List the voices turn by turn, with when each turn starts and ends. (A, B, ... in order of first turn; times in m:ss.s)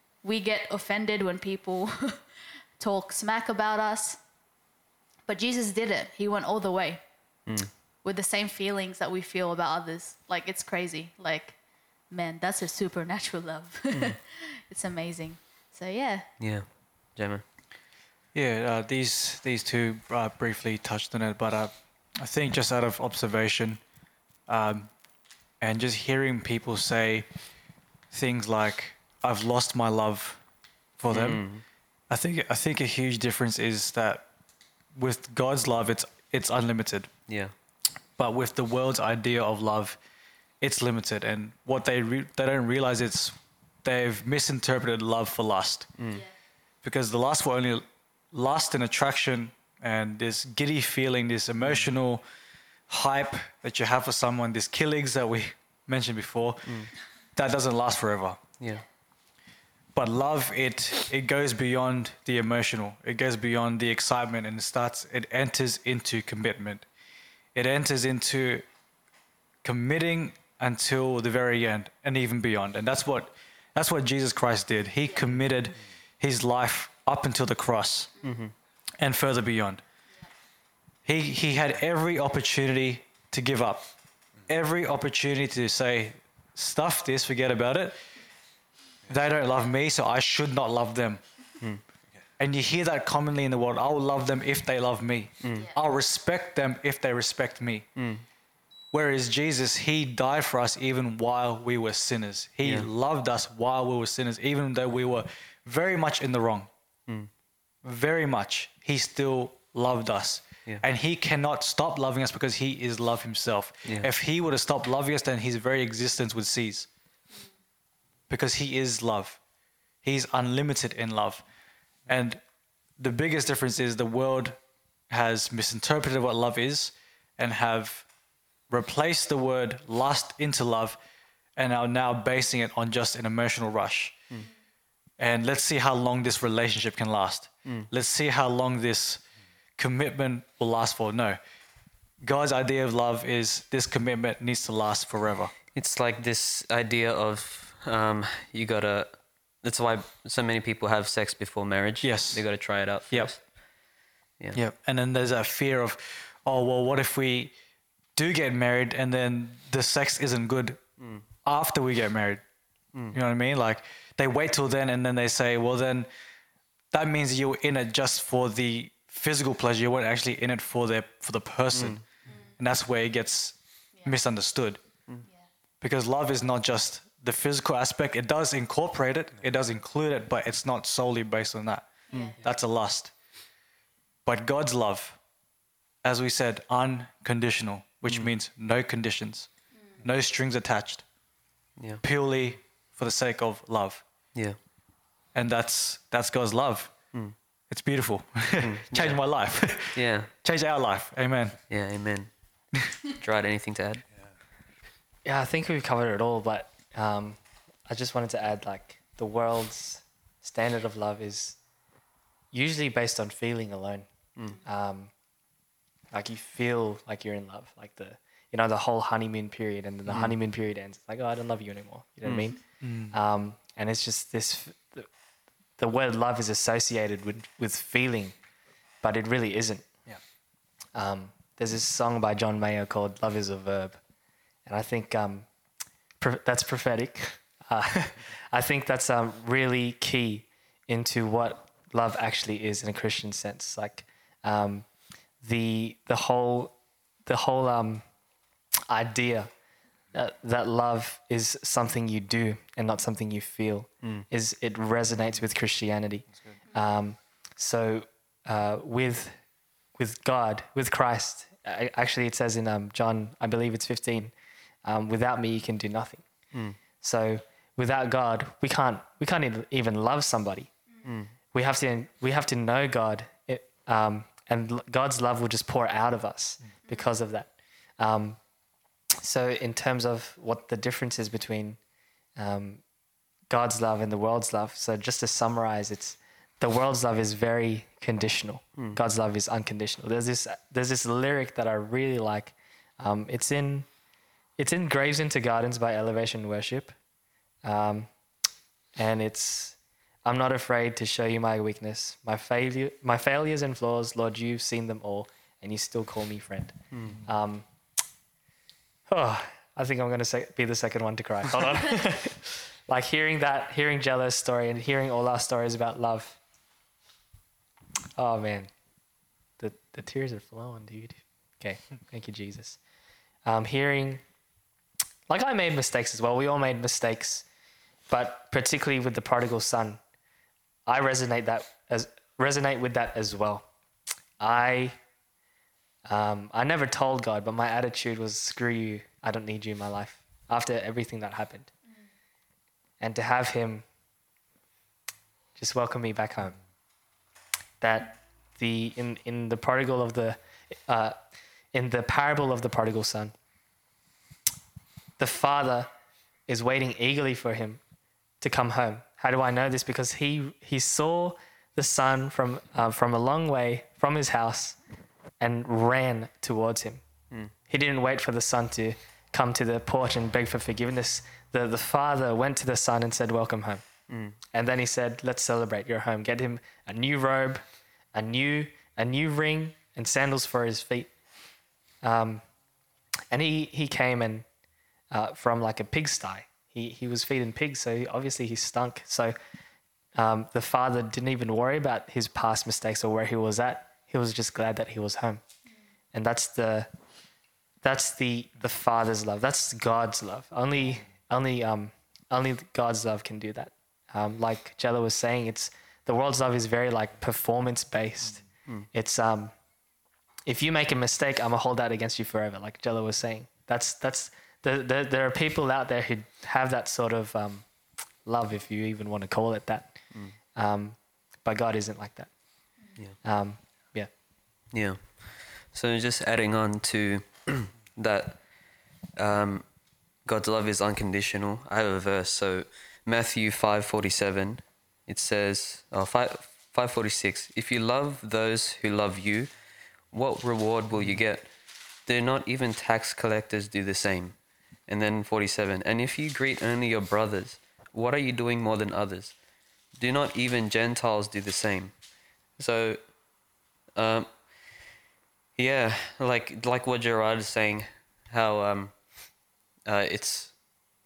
0:00.2-0:02.2 A
0:02.8-0:04.2 A
0:05.3-0:07.0 A
0:08.0-0:11.6 A
0:12.1-0:16.3 A
0:13.9-0:14.2 B
0:16.4-0:17.4 B
0:18.3-0:23.8 C
0:24.5-0:24.9 C
0:25.6-0:27.3 C
0:28.1-0:30.4 C
0:31.0-0:31.5 C
0:31.1-0:31.6 B
0:32.1-0:34.3 C
0:35.0-0:37.1 C
0:38.2-0:40.0 C
0:40.6-0:45.9 C
0:46.0-0:46.2 B
0:46.8-0:52.2 C
0:51.6-0:51.9 B
0:52.9-0:56.8 C
0:57.4-0:58.4 C
1:00.0-1:06.9 C
1:07.6-1:08.6 C
1:09.6-1:18.1 C
1:18.2-1:18.5 B
1:19.0-1:19.8 C
1:21.0-1:23.9 C
1:24.4-1:28.0 C
1:29.1-1:31.2 C
1:32.4-1:37.9 C
1:35.4-1:35.7 B
1:38.0-1:38.2 B
1:38.9-1:46.7 C
1:42.6-1:42.9 B
1:47.8-1:56.9 C
1:58.3-1:59.4 C
2:00.0-2:01.4 C
2:02.1-2:02.4 C
2:03.0-2:08.1 C
2:08.7-2:11.0 C
2:11.6-2:14.2 C
2:15.2-2:19.2 C
2:19.8-2:21.4 C
2:22.2-2:25.5 C
2:25.7-2:33.4 B
2:32.0-2:32.5 C
2:33.1-2:33.4 C
2:34.5-2:37.5 C
2:38.1-2:40.8 C
2:41.0-2:41.2 B
2:41.4-2:42.4 C
2:43.1-2:46.1 C
2:46.9-2:52.0 C
2:51.7-2:52.0 B
2:52.3-2:52.5 A
2:52.6-2:54.8 C
2:55.8-3:03.1 C
3:02.1-3:02.4 A
3:04.2-3:05.2 C
3:06.0-3:09.5 C
3:08.1-3:08.3 B
3:09.7-3:10.0 A
3:10.0-3:11.0 C
3:12.0-3:14.0 C
3:15.3-3:16.9 C
3:17.7-3:21.6 C
3:18.6-3:19.2 B
3:19.9-3:20.3 B
3:21.7-3:22.3 B
3:23.1-3:24.0 B
3:25.2-3:31.6 D
3:32.5-3:34.1 D
3:34.6-3:35.1 D
3:36.1-3:45.1 D
3:40.1-3:40.3 B
3:42.2-3:42.5 B
3:42.8-3:43.2 C
3:45.8-3:48.4 D
3:49.0-3:49.9 D
3:51.0-3:54.0 D
3:54.7-3:55.5 D
3:56.2-4:04.9 D
4:05.4-4:06.7 D
4:07.3-4:08.0 D
4:08.9-4:09.5 D
4:10.1-4:19.4 D
4:20.0-4:24.3 D
4:24.8-4:26.2 D
4:26.5-4:26.8 B
4:27.0-4:30.7 D
4:31.0-4:31.3 B
4:31.5-4:38.4 D
4:36.8-4:37.1 A
4:39.2-4:41.8 D
4:42.4-4:42.8 D
4:43.5-4:53.9 D
4:54.6-4:56.9 D
4:57.6-4:58.1 D
4:59.0-5:07.7 D
5:06.9-5:07.2 B
5:09.1-5:16.4 D
5:18.2-5:18.7 D
5:19.6-5:22.8 D
5:23.4-5:24.2 D
5:25.3-5:27.4 D
5:28.1-5:30.0 D
5:30.9-5:33.7 D
5:34.4-5:35.0 D
5:36.1-5:41.7 D
5:43.0-5:43.9 D
5:45.6-5:46.6 D
5:47.8-5:51.1 D
5:51.7-5:53.3 D
5:55.2-5:55.9 D
5:56.5-5:57.8 D
5:58.4-6:04.8 D
6:05.4-6:07.0 D
6:07.7-6:13.8 D
6:14.1-6:14.4 B
6:14.5-6:17.6 D
6:18.1-6:21.1 D
6:22.0-6:22.4 D
6:23.3-6:24.4 D
6:25.1-6:29.4 D
6:30.1-6:35.4 D
6:36.1-6:36.9 D
6:37.8-6:49.5 D
6:50.4-6:57.7 D
6:58.2-7:00.0 D
7:00.6-7:02.3 D
7:03.2-7:04.1 D
7:04.7-7:05.1 B
7:05.7-7:08.4 B
7:09.2-7:09.6 B
7:10.3-7:19.5 B
7:20.1-7:21.5 B
7:22.1-7:24.4 B
7:24.9-7:29.4 B
7:30.0-7:31.9 B
7:32.6-7:33.0 B
7:34.0-7:34.3 B
7:35.6-7:39.0 B
7:39.9-7:40.5 B